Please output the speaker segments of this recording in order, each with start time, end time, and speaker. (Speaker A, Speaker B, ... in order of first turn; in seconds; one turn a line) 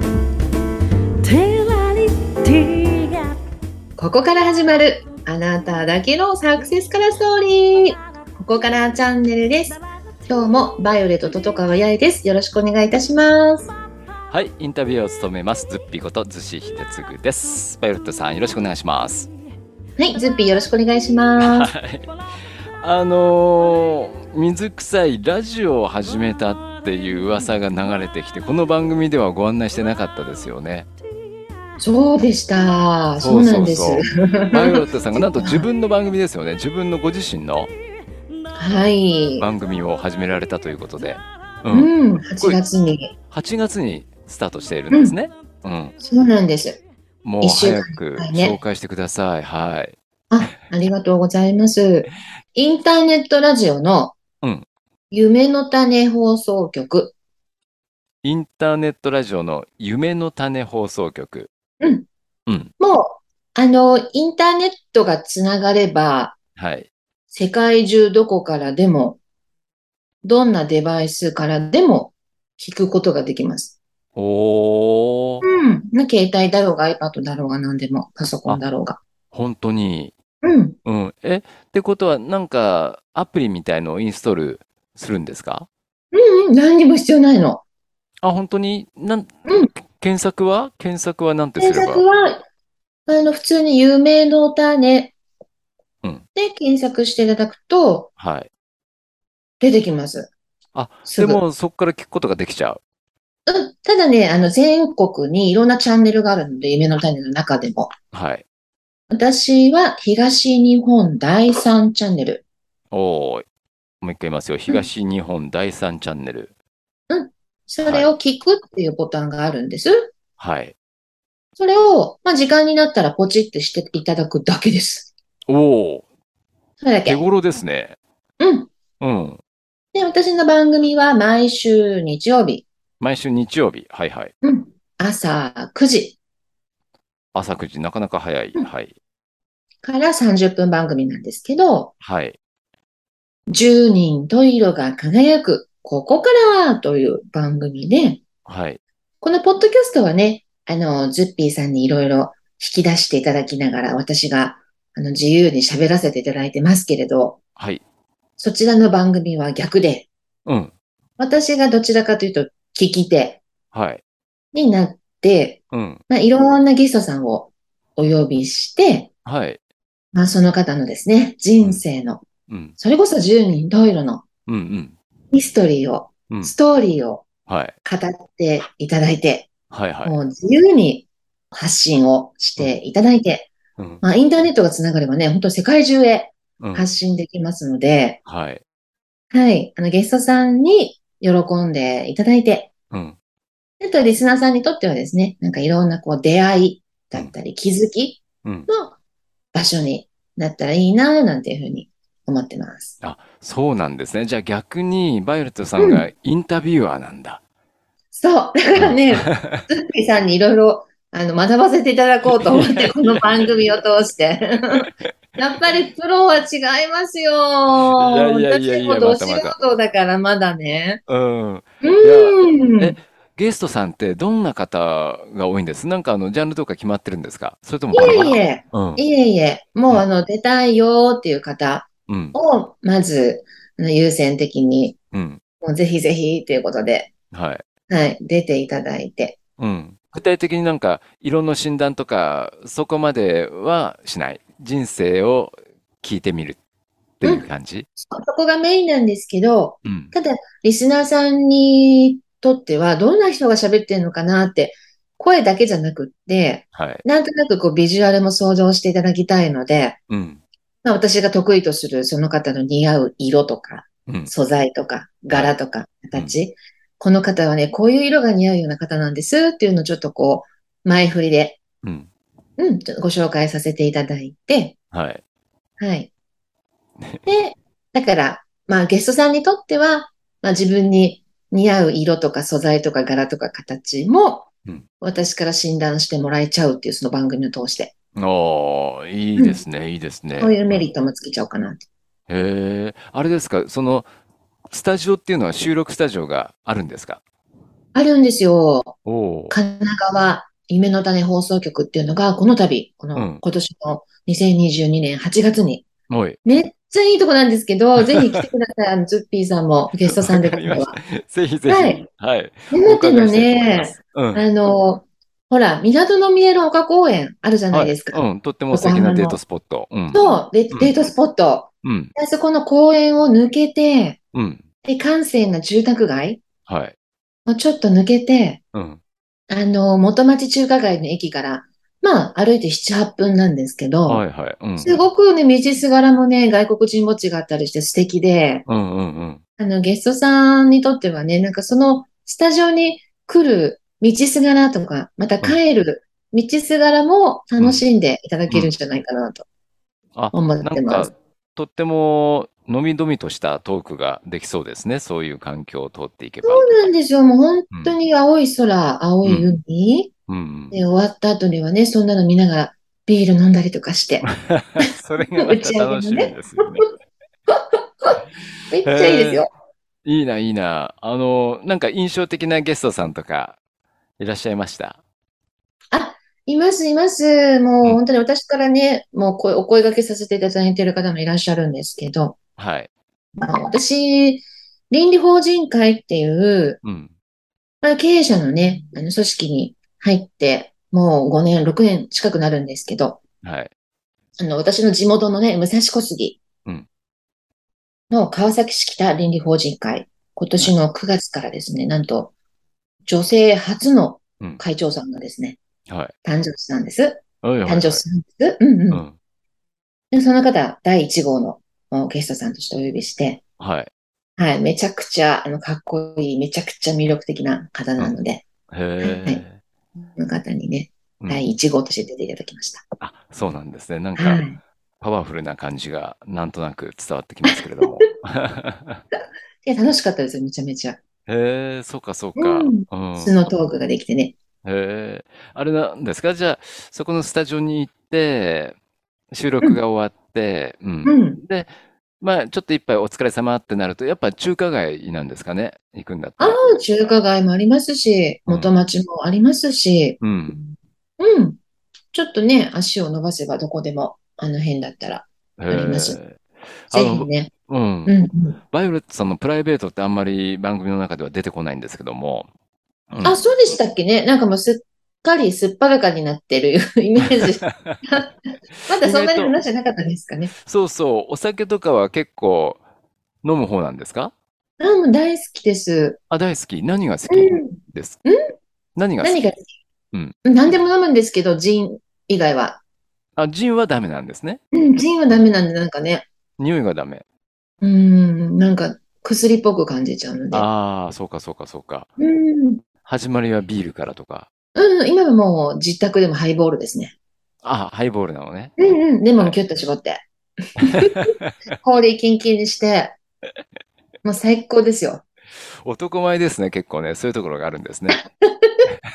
Speaker A: 1.2-3.3
Speaker B: 4.0-13.7
Speaker C: 14.3-19.3
Speaker B: 20.0-21.7
Speaker C: 21.4-22.1
Speaker C: 22.8-30.9
Speaker B: 31.8-35.7
Speaker C: 33.2-37.7
Speaker B: 38.5-39.5
Speaker C: 39.4-42.6
Speaker B: 41.7-43.1
Speaker C: 43.3-45.9
Speaker B: 44.9-45.1
Speaker B: 46.0-46.8
Speaker C: 47.2-50.5
Speaker B: 47.4-48.6
Speaker B: 50.3-54.1
Speaker B: 55.1-57.1
Speaker C: 58.2-61.5
Speaker B: 61.8-62.0
Speaker B: 62.8-66.3
Speaker C: 66.6-66.9
Speaker B: 67.3-69.2
Speaker B: 70.2-73.8
Speaker C: 74.2-75.4
Speaker B: 75.4-79.0
Speaker C: 79.3-80.1
Speaker B: 80.4-80.8
Speaker C: 80.8-85.7
Speaker B: 86.1-87.6
Speaker C: 88.2-92.0
Speaker B: 91.6-92.4
Speaker B: 93.1-95.1
Speaker B: 96.3-98.1
Speaker C: 98.2-98.5
Speaker B: 99.6-100.3
Speaker C: 100.7-102.8
Speaker B: 101.0-101.4
Speaker B: 103.5-107.9
Speaker C: 108.1-108.4
Speaker B: 109.1-112.4
Speaker C: 112.9-113.5
Speaker C: 114.0-116.5
Speaker B: 117.1-120.1
Speaker C: 117.8-118.1
Speaker C: 120.4-120.7
Speaker B: 121.6-125.1
Speaker C: 125.5-126.0
Speaker B: 126.8-127.2
Speaker C: 127.0-128.0
Speaker B: 128.4-128.7
Speaker C: 129.0-129.4
Speaker B: 129.9-132.7
Speaker C: 133.0-134.3
Speaker B: 134.4-136.2
Speaker C: 137.3-138.9
Speaker B: 139.8-141.9
Speaker C: 142.0-142.4
Speaker B: 143.5-148.2
Speaker C: 148.4-148.8
Speaker B: 149.2-157.4
Speaker C: 157.6-157.8
Speaker B: 158.4-160.1
Speaker C: 160.4-160.7
Speaker B: 161.2-163.4
Speaker C: 163.7-164.0
Speaker B: 164.5-169.1
Speaker C: 165.7-166.0
Speaker C: 169.2-169.6
Speaker B: 170.1-172.2
Speaker C: 172.5-172.7
Speaker B: 172.8-174.2
Speaker C: 174.5-174.9
Speaker B: 175.3-177.2
Speaker C: 176.3-176.5
Speaker C: 177.5-177.7
Speaker B: 177.8-179.5
Speaker C: 179.7-180.2
Speaker B: 180.0-183.5
Speaker C: 183.8-184.0
Speaker B: 184.0-188.2
Speaker C: 186.6-186.9
Speaker C: 188.2-188.6
Speaker B: 189.3-192.7
Speaker C: 192.9-193.2
Speaker B: 193.8-198.9
Speaker C: 198.4-198.7
Speaker B: 199.5-202.9
Speaker C: 203.0-207.4
Speaker B: 205.8-206.1
Speaker B: 208.1-221.0
Speaker C: 208.8-209.6
Speaker C: 212.3-213.5
Speaker C: 217.9-219.6
Speaker C: 221.1-229.0
Speaker B: 221.8-222.9
Speaker B: 227.9-235.0
Speaker C: 232.1-232.3
Speaker C: 235.1-235.4
Speaker B: 235.6-237.1
Speaker C: 237.3-237.6
Speaker B: 237.9-239.4
Speaker C: 239.6-246.6
Speaker C: 247.2-247.9
Speaker B: 247.2-260.0
Speaker C: 249.8-250.1
Speaker C: 256.7-257.0
Speaker C: 260.1-260.4
Speaker B: 260.8-271.6
Speaker C: 264.1-264.3
Speaker C: 271.8-272.1
Speaker B: 272.6-274.8
Speaker C: 274.9-275.2
Speaker B: 275.8-276.1
Speaker B: 277.2-284.5
Speaker B: 285.0-287.9
Speaker C: 288.2-290.9
Speaker B: 289.4-289.6
Speaker B: 290.3-291.9
Speaker C: 292.3-294.1
Speaker C: 294.7-297.2
Speaker B: 297.9-298.9
Speaker C: 299.0-299.5
Speaker B: 299.5-305.8
Speaker C: 303.1-303.4
Speaker C: 306.1-306.4
Speaker B: 306.4-310.9
Speaker C: 308.0-308.4
Speaker C: 310.1-314.4
Speaker B: 311.7-312.0
Speaker B: 312.7-319.4
Speaker C: 317.7-320.9
Speaker B: 320.1-324.2
Speaker C: 321.8-322.1
Speaker C: 324.3-324.6
Speaker B: 324.8-326.4
Speaker C: 326.6-326.9
Speaker B: 327.4-328.6
Speaker C: 328.7-329.0
Speaker B: 329.5-334.2
Speaker C: 334.1-334.9
Speaker B: 334.8-338.6
Speaker C: 338.6-339.4
Speaker B: 339.6-349.4
Speaker C: 347.6-347.8
Speaker C: 350.1-356.8
Speaker B: 350.3-351.1
Speaker B: 356.4-360.1
Speaker C: 359.2-359.5
Speaker C: 360.3-360.8
Speaker B: 360.7-364.3
Speaker C: 364.3-366.9
Speaker B: 364.8-366.4
Speaker B: 367.5-369.5
Speaker C: 368.8-369.5
Speaker C: 370.0-373.6
Speaker C: 374.2-375.0
Speaker B: 375.9-382.4
Speaker C: 382.6-382.9
Speaker B: 383.4-386.8
Speaker C: 386.8-387.1
Speaker B: 387.8-393.2
Speaker C: 393.4-393.7
Speaker B: 394.4-396.4
Speaker B: 398.1-402.3
Speaker B: 403.1-405.6
Speaker C: 405.9-406.1
Speaker B: 406.2-409.0
Speaker C: 407.4-408.0
Speaker B: 410.1-413.4
Speaker C: 413.6-413.9
Speaker B: 414.4-418.4
Speaker C: 418.7-419.6
Speaker B: 419.0-419.4
Speaker B: 420.0-422.8
Speaker C: 423.0-424.4
Speaker B: 424.2-424.6
Speaker C: 425.0-429.0
Speaker B: 427.4-428.0
Speaker B: 429.6-431.0
Speaker C: 431.3-433.4
Speaker B: 432.4-434.4
Speaker C: 434.6-438.8
Speaker C: 439.3-446.6
Speaker B: 441.0-441.4
Speaker B: 446.4-451.6
Speaker C: 450.2-450.6
Speaker B: 452.1-456.2
Speaker C: 455.6-458.1
Speaker B: 456.9-457.5
Speaker B: 458.1-458.6
Speaker C: 458.7-462.5
Speaker C: 463.1-463.4
Speaker B: 463.2-470.5
Speaker C: 467.3-468.0
Speaker C: 468.9-469.5
Speaker C: 470.6-472.8
Speaker C: 473.4-474.3
Speaker B: 474.8-476.2
Speaker C: 476.3-478.2
Speaker B: 477.3-478.5
Speaker C: 478.9-479.4
Speaker B: 479.2-479.7
Speaker B: 480.4-482.8
Speaker C: 483.4-484.6
Speaker B: 484.7-486.3
Speaker C: 486.6-487.2
Speaker B: 487.8-490.6
Speaker C: 490.5-492.1
Speaker B: 492.2-492.8
Speaker C: 493.0-494.5
Speaker B: 494.7-497.1
Speaker C: 497.6-499.6
Speaker B: 498.8-500.2
Speaker B: 500.8-503.1
Speaker C: 500.8-501.5
Speaker B: 504.2-505.2
Speaker C: 505.8-508.2
Speaker B: 508.1-508.9